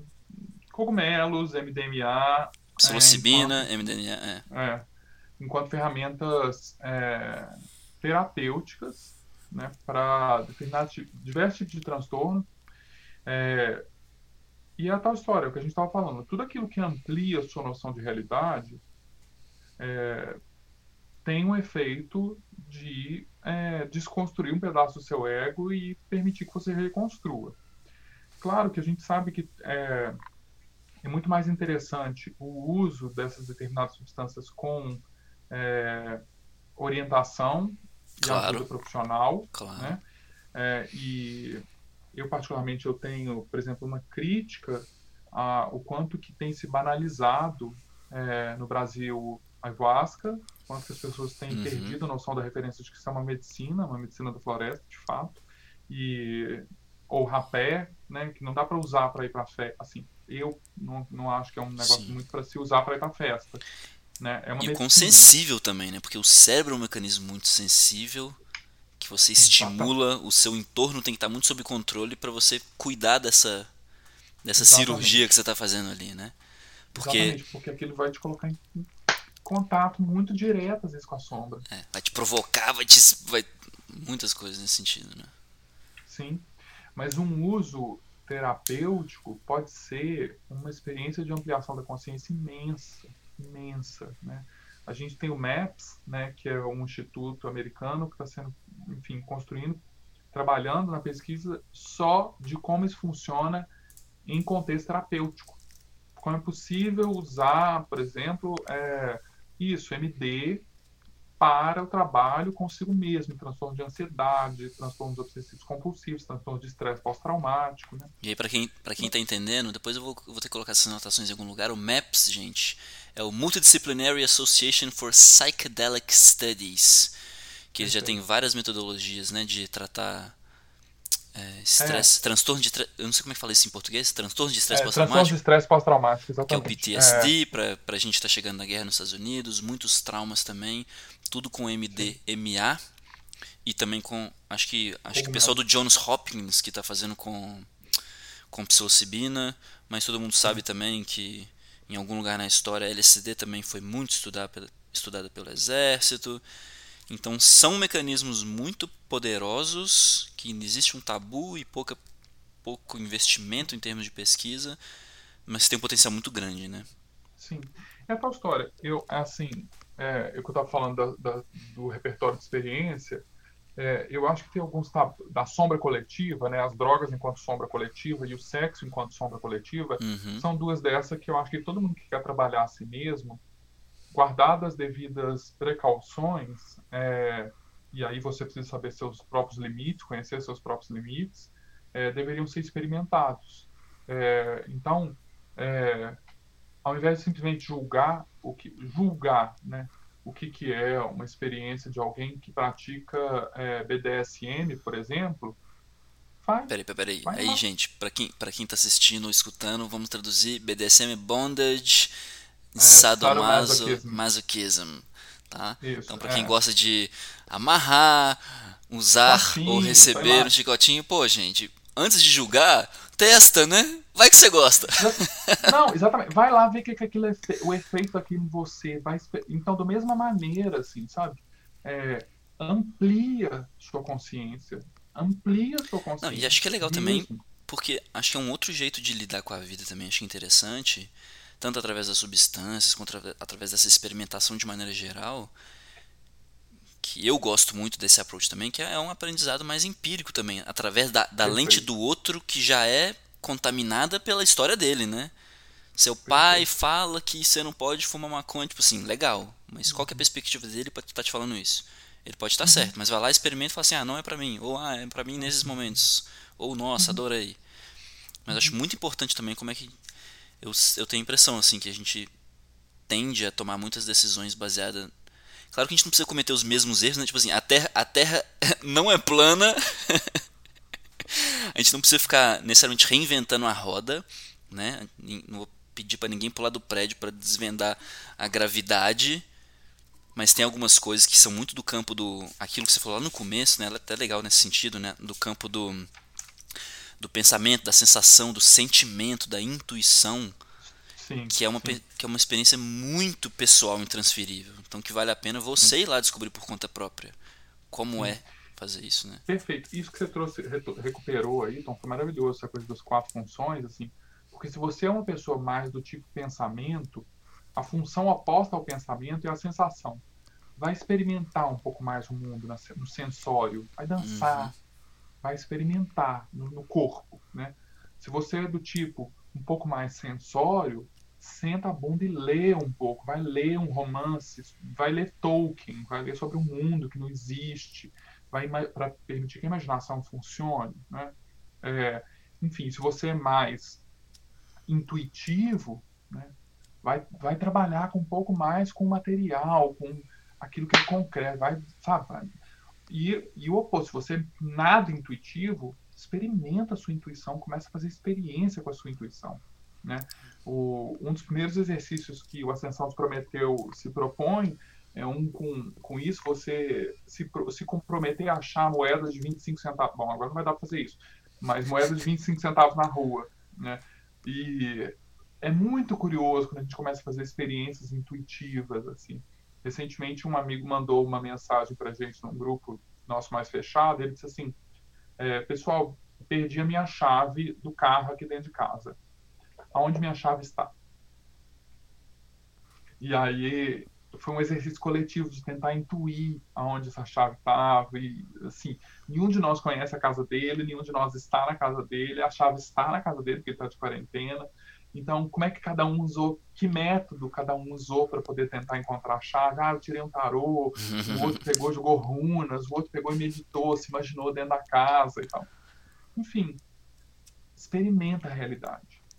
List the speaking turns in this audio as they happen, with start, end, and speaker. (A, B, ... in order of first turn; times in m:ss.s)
0:00.3-0:03.7 A
0:02.8-0:04.4 B
0:04.5-0:04.9 A
0:05.4-0:12.5 A
0:13.2-0:13.9 A
0:14.8-0:18.8 A
0:19.8-0:20.4 A
0:21.2-0:27.6 A
0:28.4-0:30.2 A
0:31.0-0:36.2 A
0:36.8-0:40.0 A
0:38.2-0:38.7 B
0:39.5-0:40.0 B
0:40.5-1:03.6 A
0:51.5-0:52.0 B
1:01.8-1:02.2 B
1:04.2-1:05.3 A
1:04.6-1:08.4 B
1:09.0-1:13.7 B
1:09.4-1:09.9 A
1:14.4-1:16.3 B
1:14.6-1:15.2 A
1:16.9-1:17.4 B
1:16.9-1:18.9 A
1:19.4-1:21.6 A
1:21.7-1:25.3 B
1:26.0-1:43.7 A
1:44.2-1:45.6 A
1:46.2-1:50.7 A
1:51.4-1:58.1 A
1:58.2-2:07.1 B
2:07.7-2:10.3 B
2:07.8-2:08.2 A
2:11.3-2:15.4 B
2:11.8-2:12.1 A
2:14.7-2:17.3 A
2:16.5-2:22.8 B
2:23.6-2:27.7 B
2:25.1-2:25.6 A
2:28.5-2:36.4 B
2:37.1-2:42.0 B
2:42.6-2:44.8 B
2:45.5-2:46.9 B
2:47.4-3:03.4 A
3:00.0-3:00.4 B
3:04.1-3:16.2 A
3:16.8-3:25.6 A
3:26.4-3:27.6 A
3:26.7-3:32.1 B
3:32.7-3:45.7 B
3:32.8-3:34.2 A
3:35.8-3:36.5 A
3:39.2-3:40.5 A
3:45.0-3:57.4 A
3:56.2-4:05.5 B
4:07.0-4:15.3 B
4:11.4-4:11.9 A
4:16.0-4:27.6 B
4:16.3-4:16.7 A
4:19.9-4:20.2 A
4:22.6-4:22.9 A
4:25.4-4:26.0 A
4:28.4-4:29.9 B
4:30.6-4:32.3 B
4:33.1-4:35.1 B
4:35.7-4:40.4 B
4:41.3-4:49.4 B
4:50.3-4:56.1 B
4:57.2-5:00.6 B
5:01.1-5:02.0 A
5:01.5-5:07.4 B
5:07.9-5:09.4 B
5:09.5-5:20.2 A
5:20.8-5:24.7 A
5:24.2-5:24.7 B
5:25.4-5:44.0 A
5:44.9-5:52.5 A
5:53.1-6:24.8 A
6:25.4-6:29.2 A
6:29.9-6:30.9 A
6:33.2-6:55.7 A
6:51.0-6:51.6 B
6:56.3-6:56.8 A
6:57.8-6:59.2 A